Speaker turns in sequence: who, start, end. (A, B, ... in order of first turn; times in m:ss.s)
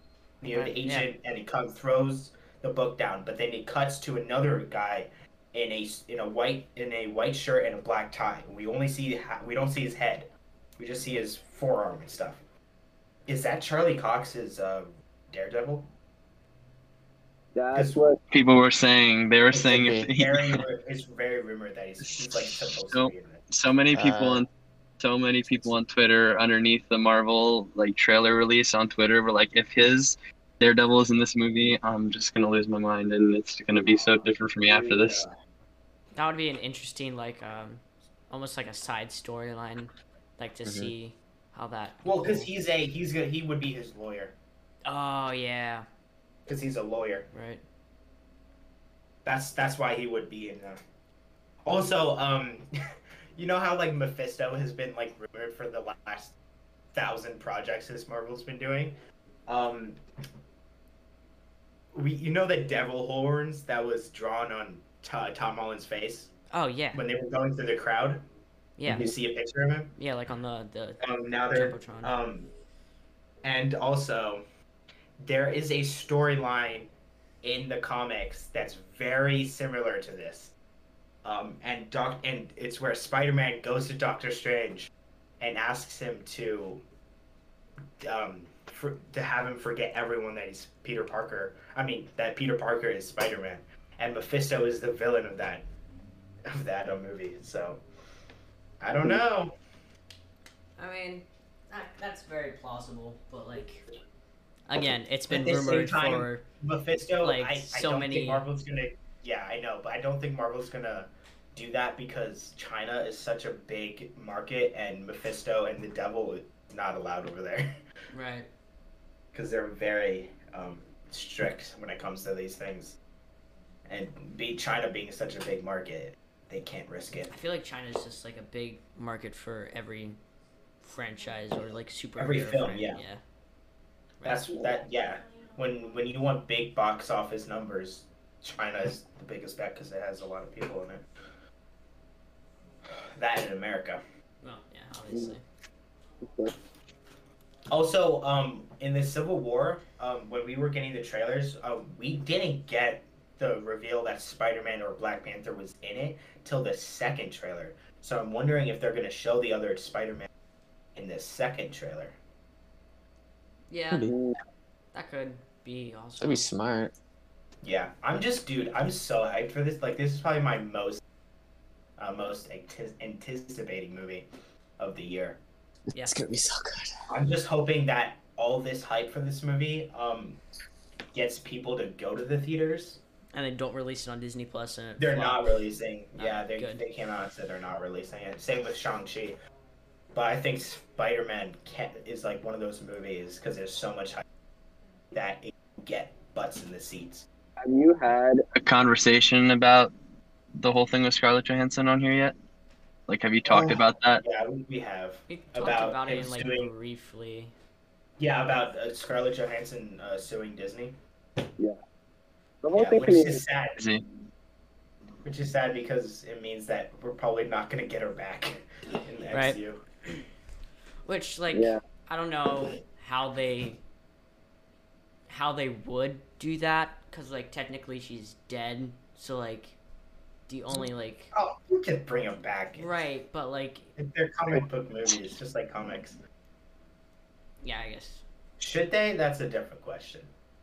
0:00.4-0:12.4 A
0:00.5-0:01.1 B
0:13.3-0:15.9 A
0:17.6-0:18.2 C
0:17.7-0:18.0 A
0:18.3-0:20.7 D
0:19.5-0:23.4 A
0:19.5-0:20.1 E
0:22.0-0:24.5 D
0:23.9-0:24.5 E
0:25.0-0:35.2 D
0:33.9-0:34.2 A
0:34.7-0:35.4 A
0:36.2-0:42.5 B
0:40.6-0:40.9 E
0:42.0-0:44.4 A
0:44.8-0:45.9 B
0:46.5-0:47.3 A
0:47.3-0:47.6 B
0:49.2-0:50.8 A
0:51.6-0:52.7 A
0:53.4-0:56.4 A
0:56.9-1:00.0 A
1:01.9-1:06.3 A
1:06.5-1:07.0 B
1:06.9-1:08.2 A
1:08.8-1:09.1 B
1:08.9-1:09.9 A
1:10.0-1:12.2 B
1:11.0-1:12.5 A
1:13.4-1:14.4 A
1:15.2-1:16.9 A
1:17.4-1:20.5 A
1:21.2-1:26.8 A
1:28.0-1:35.7 A
1:36.5-1:37.8 A
1:38.8-1:39.5 A
1:40.8-1:43.8 B
1:44.7-1:46.4 B
1:45.3-1:57.7 A
1:47.2-1:48.5 B
1:58.1-1:58.5 B
1:59.3-2:03.0 A
2:03.9-2:07.3 A
2:07.3-2:10.2 B
2:10.8-2:13.2 B
2:12.2-2:13.0 A
2:14.2-2:14.5 B
2:14.2-2:21.0 A
2:23.2-2:24.0 A
2:24.4-2:25.4 B
2:26.2-2:26.5 C
2:27.7-2:40.3 A
2:41.0-2:42.2 A
2:43.7-2:44.1 B
2:44.1-2:44.4 C
2:44.9-2:46.5 B
2:46.2-2:46.9 E
2:47.6-2:51.0 A
2:52.0-2:54.3 A
2:54.8-2:55.4 A
2:55.9-2:56.9 E
2:55.9-2:56.2 B
2:57.1-3:00.4 A
3:01.1-3:03.0 A
3:03.3-3:05.6 B
3:05.0-3:09.4 A
3:06.2-3:06.8 B
3:10.1-3:14.2 A
3:15.1-3:17.3 A
3:17.6-3:18.4 C
3:18.6-3:19.9 D
3:20.6-3:22.4 D
3:23.1-3:24.2 D
3:23.5-3:26.7 A
3:25.3-3:27.5 B
3:28.2-3:31.0 A
3:32.6-3:33.4 C
3:32.7-3:33.8 A
3:33.8-3:34.0 D
3:35.2-3:39.8 A
3:39.3-3:39.6 B
3:41.0-3:43.8 B
3:41.5-3:41.8 C
3:45.3-3:49.8 B
3:50.5-3:51.3 B
3:51.3-3:53.0 A
3:52.8-3:53.9 B
3:54.0-3:56.2 A
3:57.6-3:58.2 B
3:58.6-4:00.3 A